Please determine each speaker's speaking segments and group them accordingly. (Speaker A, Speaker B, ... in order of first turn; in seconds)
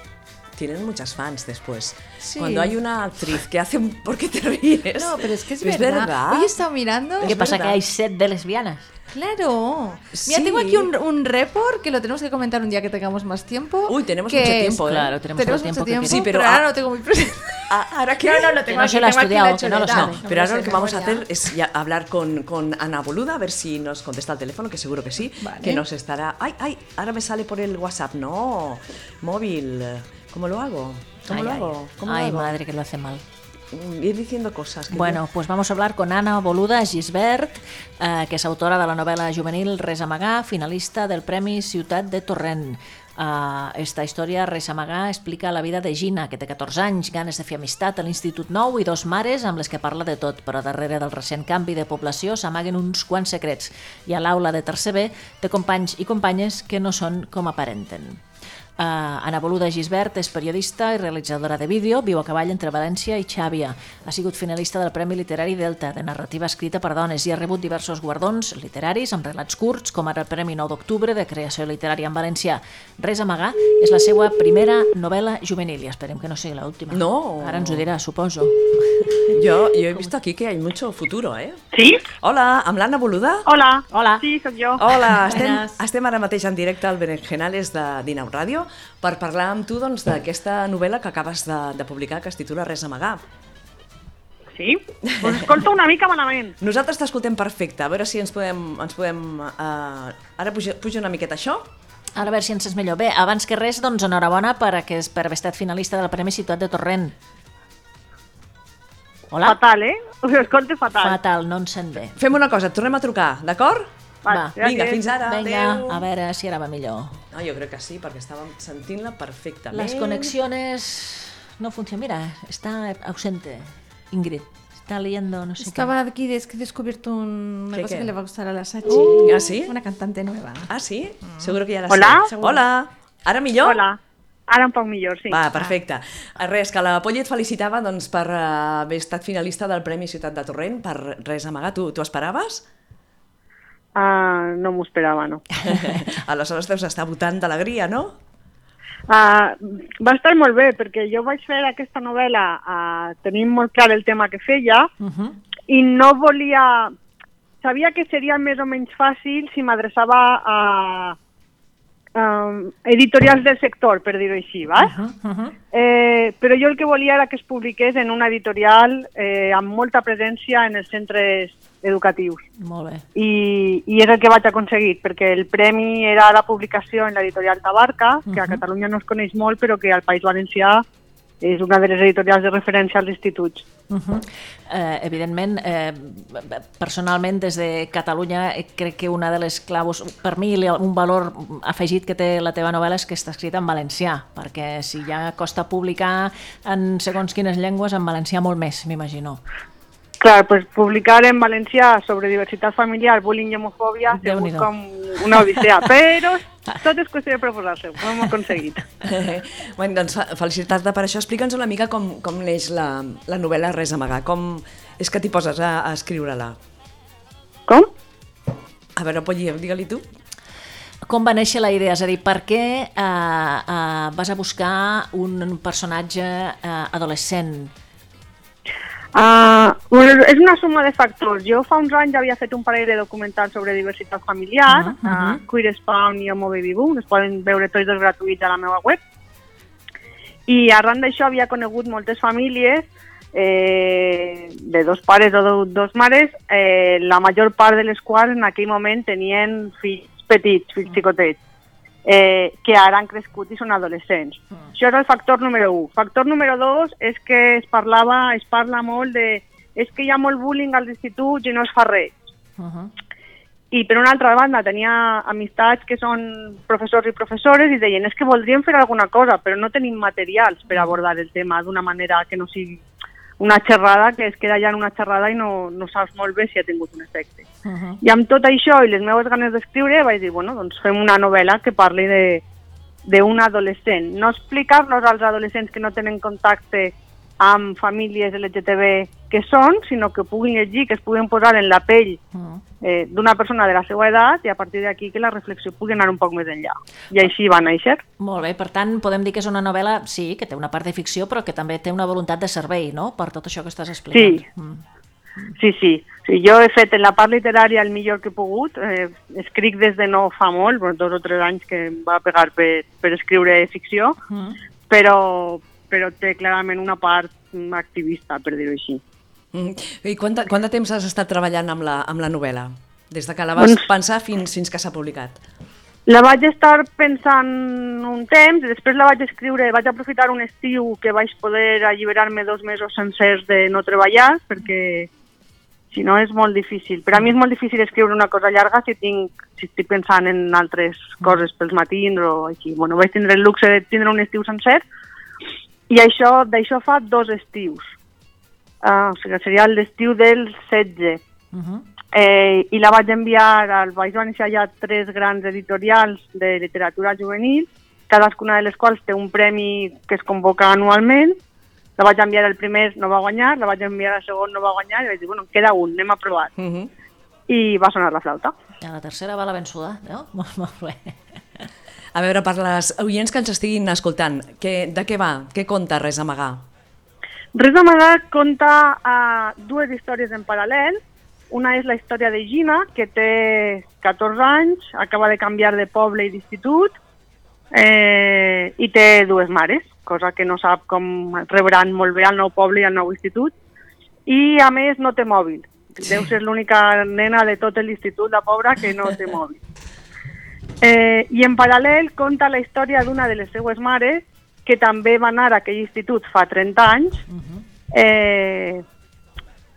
Speaker A: 0.6-6.5, 7.2-7.8, 10.1-10.9, 13.8-15.1, 16.0-16.7, 17.7-18.7, 19.9-32.6, 33.7-35.2, 76.9-77.8, 79.3-81.6, 82.2-83.5, 84.8-93.2, 95.2-95.5, 96.6-101.7, 112.2-113.9, 114.6-116.0, 117.3-120.3, 127.7-128.1, 129.2-129.7, 130.7-133.8, 135.3-142.6, 145.7-148.2, 209.0-216.6, 218.9-220.0, 319.5-325.4, 366.6-366.9, 372.1-376.6
Speaker B: 2.2-2.8, 4.9-7.3, 9.1-21.4, 25.4-25.8, 85.3-85.8, 125.6-130.7, 131.2-131.5, 132.3-132.6
Speaker C: 7.2-8.9, 14.8-16.3, 18.7-20.2, 31.3-33.2, 34.9-58.2, 58.8-79.4, 83.9-84.2, 102.2-107.1, 109.3-109.6, 111.0-112.2, 114.3-114.6, 115.2-117.2, 119.7-125.9, 128.9-129.3, 145.7-146.0, 155.0-155.4, 164.8-165.6, 172.6-173.0, 178.3-178.6, 183.9-199.4, 204.1-204.7, 205.2-205.8, 221.1-227.7, 234.7-235.4, 262.6-262.9, 270.7-270.9, 277.6-278.0, 292.3-292.6, 298.2-304.8, 314.3-314.6, 351.5-351.8, 368.8-371.6, 407.3-407.6
Speaker D: 81.7-82.1, 83.5-84.8, 94.5-96.5, 109.4-111.2, 114.2-115.0, 131.9-132.3, 133.6-135.4, 143.9-145.4, 149.1-154.9, 155.7-156.9, 157.6-161.2, 162.1-164.9, 165.7-172.4, 173.1-180.8, 181.4-183.7, 200.2-208.8, 229.1-239.0, 240.5-251.4, 252.0-262.2, 263.7-272.8, 273.4-277.4, 278.0-282.4, 283.0-292.2, 292.8-298.0, 304.1-304.4, 305.6-314.1, 314.9-319.0, 326.1-335.1, 335.9-344.8, 345.9-347.9, 348.8-351.2, 352.1-361.4, 362.0-366.5, 367.5-368.5, 377.5-386.9, 387.7-393.5, 394.3-399.6, 400.8-407.2, 407.9-408.8